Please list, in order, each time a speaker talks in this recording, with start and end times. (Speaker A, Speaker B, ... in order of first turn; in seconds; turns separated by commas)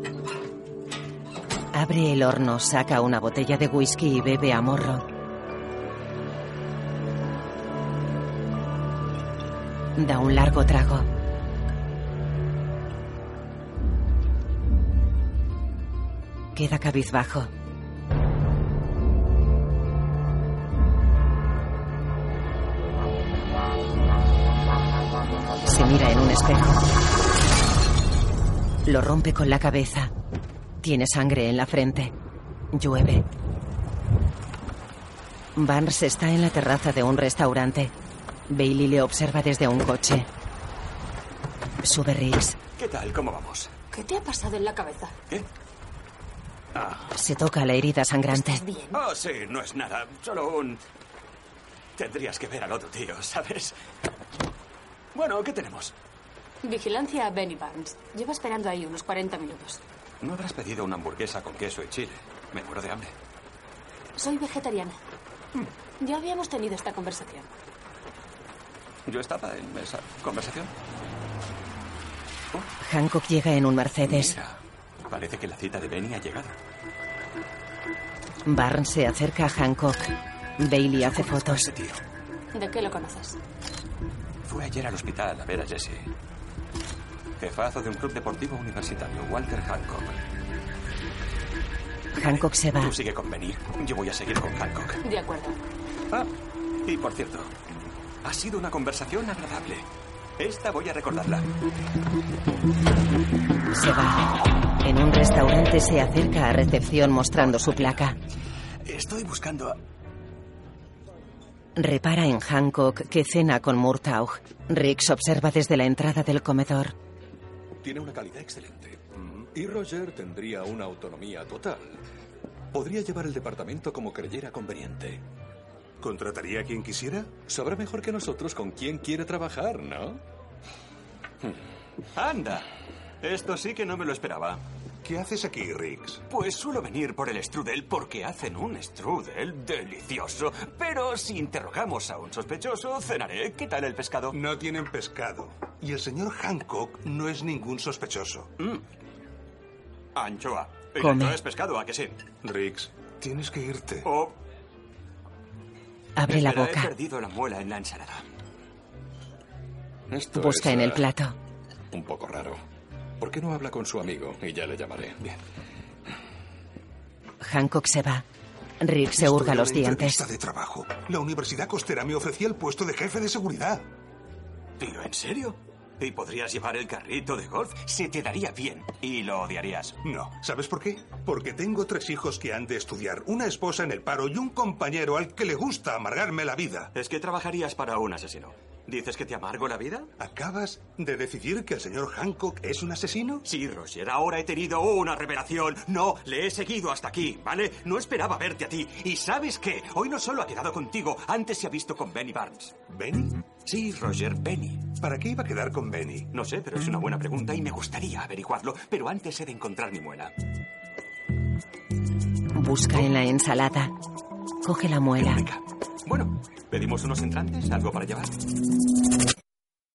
Speaker A: 1.7-5.0, Speaker A: 9.9-11.1, Speaker A: 16.5-17.5, Speaker A: 25.6-26.8, Speaker A: 28.9-30.1, Speaker A: 30.8-32.1, Speaker A: 32.7-33.2, Speaker A: 35.5-37.9, Speaker A: 38.5-40.3, Speaker A: 41.8-42.6, Speaker B: 42.8-43.7, Speaker C: 43.9-45.1, Speaker B: 46.7-47.1, Speaker A: 47.1-48.6, Speaker C: 48.5-48.9, Speaker B: 48.9-50.8, Speaker B: 52.0-53.7, Speaker B: 55.1-55.9, Speaker C: 56.6-59.8, Speaker B: 60.2-63.1, Speaker C: 64.2-65.0, Speaker C: 66.0-67.5, Speaker B: 69.1-70.7, Speaker A: 72.8-74.4, Speaker B: 74.0-74.6, Speaker B: 75.1-76.6, Speaker A: 78.5-81.7, Speaker B: 81.0-82.0, Speaker C: 82.5-83.4, Speaker B: 84.4-86.1, Speaker B: 87.4-90.2, Speaker A: 92.2-92.9, Speaker B: 92.2-95.0, Speaker C: 95.0-95.6, Speaker B: 96.8-97.5, Speaker B: 98.2-99.9, Speaker B: 100.4-101.5, Speaker A: 103.7-104.3, Speaker A: 104.8-108.2, Speaker B: 107.6-107.8, Speaker B: 108.8-109.8, Speaker A: 111.8-116.9, Speaker D: 117.8-122.0, Speaker E: 119.2-119.5, Speaker D: 122.7-125.2, Speaker E: 126.0-127.3, Speaker D: 127.5-130.2, Speaker B: 132.1-132.7, Speaker B: 133.2-134.6, Speaker E: 135.0-136.2, Speaker B: 136.3-144.3, Speaker E: 144.3-148.5, Speaker B: 150.1-152.2, Speaker A: 151.0-151.4, Speaker E: 152.4-154.1, Speaker B: 154.0-154.3, Speaker A: 156.2-156.9, Speaker B: 156.3-158.2, Speaker D: 160.1-161.1, Speaker A: 160.3-161.3, Speaker D: 161.9-162.6, Speaker D: 163.2-165.3, Speaker A: 167.4-168.2, Speaker A: 168.8-170.2, Speaker E: 169.2-173.8, Speaker B: 174.8-180.0, Speaker E: 180.0-186.9, Speaker B: 186.9-190.1, Speaker E: 190.2-193.4, Speaker B: 193.4-202.8, Speaker E: 202.9-203.4, Speaker B: 203.6-204.9, Speaker E: 205.0-206.3, Speaker B: 206.3-210.3, Speaker A: 212.5-213.9, Speaker A: 214.6-215.4, Speaker B: 215.2-218.3